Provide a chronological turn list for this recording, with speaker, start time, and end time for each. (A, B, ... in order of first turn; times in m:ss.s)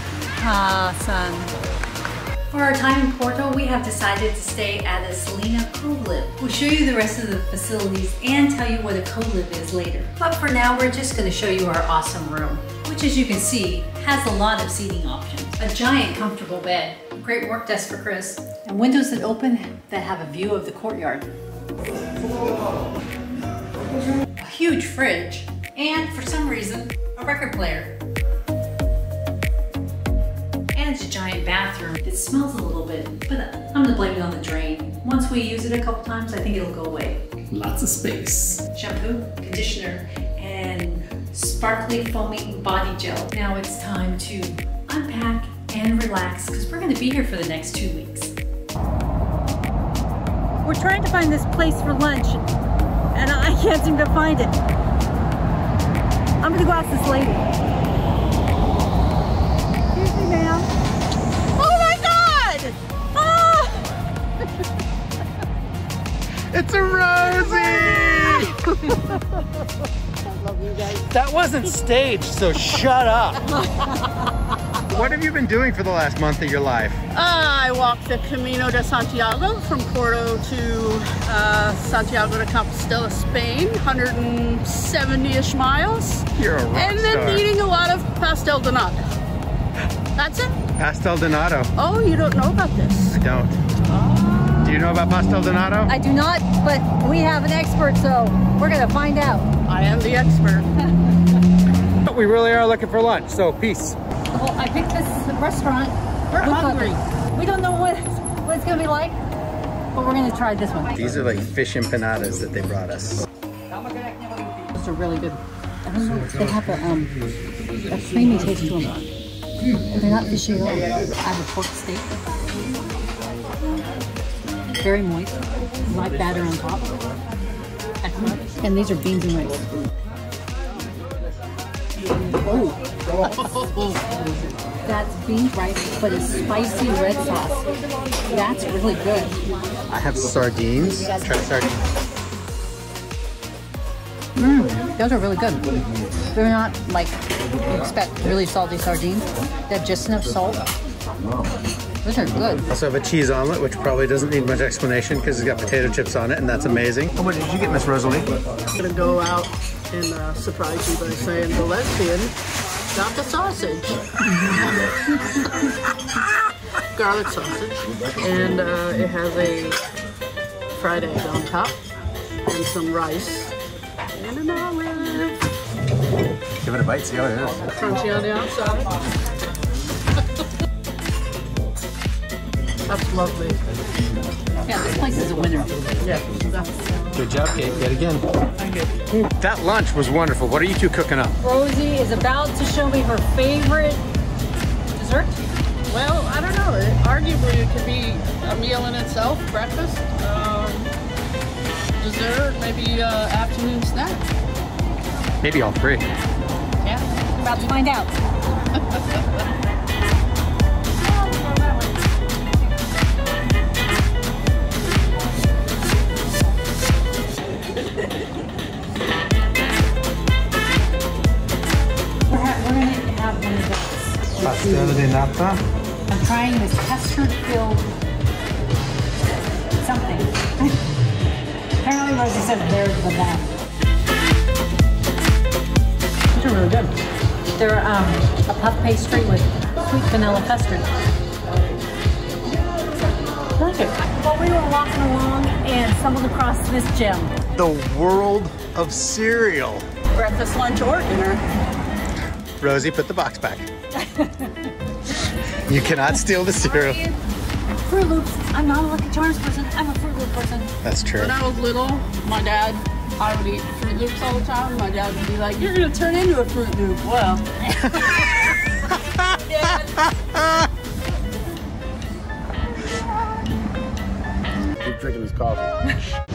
0:00.4-0:01.5 A
0:02.5-0:21.3 A
0:24.3-0:27.9 A
0:30.7-0:37.2 A
0:37.5-0:38.6 B
0:38.6-0:48.3 A
0:50.6-0:52.4 A
0:53.1-0:54.6 A
0:56.4-0:57.5 A
0:59.9-1:00.7 A
1:01.6-1:03.8 A
1:06.5-1:08.6 B
1:08.1-1:09.0 C
1:10.2-1:11.1 C
1:11.1-1:13.4 B
1:14.9-1:17.0 B
1:17.1-1:29.0 C
1:26.4-1:27.5 B
1:30.2-1:30.5 C
1:30.8-1:31.7 B
1:31.8-1:33.1 C
1:33.1-1:33.6 B
1:33.9-1:34.7 C
1:34.6-1:35.9 B
1:35.9-1:39.5 A
1:39.7-1:40.7 C
1:42.0-1:44.0 B
1:44.3-1:49.2 A
1:46.4-1:47.0 C
1:49.9-1:51.0 A
1:50.9-1:53.2 B
1:54.8-1:55.4 C
1:55.8-1:57.2 A
1:57.9-1:59.1 A
1:59.8-2:02.1 A
2:04.8-2:07.0 A
2:08.0-2:09.6 A
2:12.4-2:12.8 A
2:13.2-2:14.5 C
2:14.8-2:17.7 A
2:18.3-2:19.4 A
2:19.9-2:21.8 B
2:24.4-2:25.7 A
2:26.3-2:30.6 A
2:32.0-2:32.6 A
2:32.7-2:38.3 B
2:38.8-2:42.3 C
2:42.9-2:43.9 C
2:46.9-2:49.8 C
2:50.8-2:51.8 C
2:52.5-2:53.5 C
2:54.1-2:55.3 C
2:56.6-2:57.7 B
2:57.7-2:58.8 C
3:02.9-3:03.6 C
3:04.6-3:05.8 A
3:06.0-3:07.1 C
3:07.1-3:08.2 B
3:09.1-3:11.4 B
3:11.4-3:14.0 A
3:14.9-3:15.4 A
3:15.9-3:20.9 C
3:22.0-3:24.2 C
3:25.4-3:26.1 B
3:27.4-3:28.2 A
3:42.2-3:45.0 A
3:44.4-3:45.6 B
3:46.1-3:47.9 A
3:49.8-3:50.8 A
3:51.8-3:53.5 A
3:56.3-3:56.9 A
3:57.5-4:00.9 A
4:03.6-4:07.3 A
4:07.5-4:09.8 B
4:10.1-4:11.4 C
4:12.6-4:13.6 B
4:14.0-4:14.5 A
4:15.7-4:17.0 B
4:16.6-4:17.1 A
4:17.8-4:20.7 A
4:20.8-4:21.3 B
4:21.2-4:27.4 C
4:27.8-4:28.1 A
4:27.9-4:28.3 B
4:28.9-4:30.7 B
4:29.6-4:30.0 A
4:34.8-4:35.7 B